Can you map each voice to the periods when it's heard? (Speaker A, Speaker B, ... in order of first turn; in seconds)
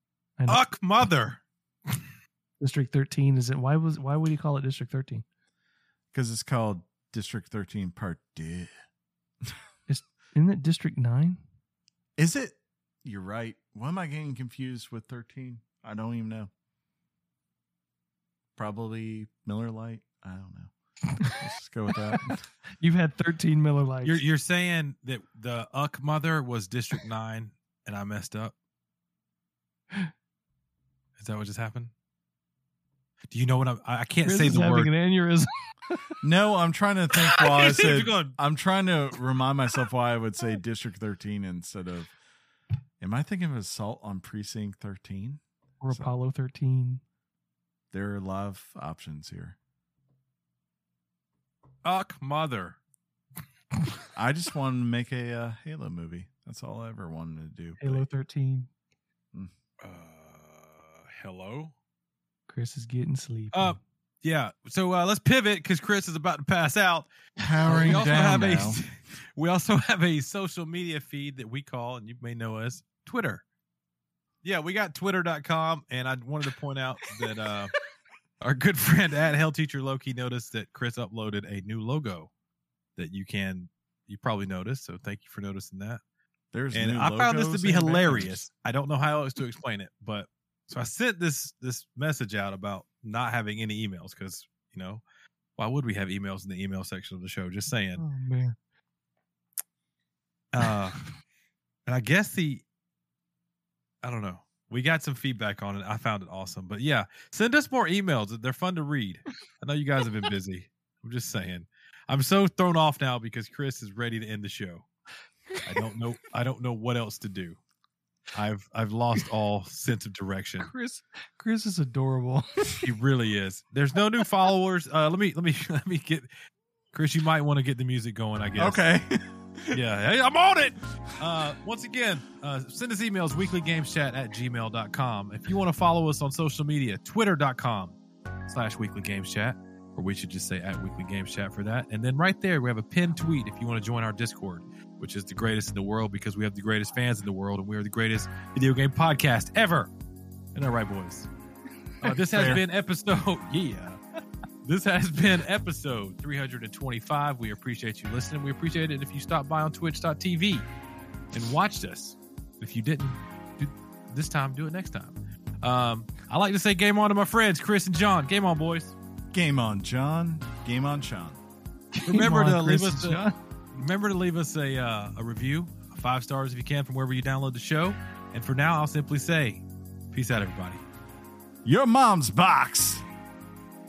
Speaker A: 0.4-0.6, 2.6-5.2, 9.9-11.4, 22.8-24.2, 34.2-36.1, 45.8-47.0, 57.8-58.7, 62.5-63.8, 98.0-98.5, 120.6-122.5, 171.9-173.3
Speaker B: 0.5-2.0, 24.0-28.5, 31.2-31.9, 33.3-34.9, 37.4-38.4, 51.8-52.8, 59.8-61.7, 63.5-67.1, 67.7-73.4, 74.4-77.7, 78.4-82.3, 83.0-86.0, 86.7-95.0, 95.6-98.0, 100.5-101.1, 101.8-102.6, 104.0-114.8, 115.6-117.6, 118.3-120.7, 122.7-126.3, 126.9-128.8, 129.7-137.9, 138.5-149.9, 150.5-151.3, 152.0-154.0, 154.6-160.6, 161.3-168.9, 172.1-180.8
Speaker C: 6.1-8.7, 12.2-16.5, 18.6-20.7, 21.2-22.5, 36.2-42.1, 43.0-46.1, 47.9-49.6, 54.1-58.0, 67.4-68.8, 86.5-88.4, 128.6-129.8, 152.3-152.6, 169.3-171.4, 181.6-183.0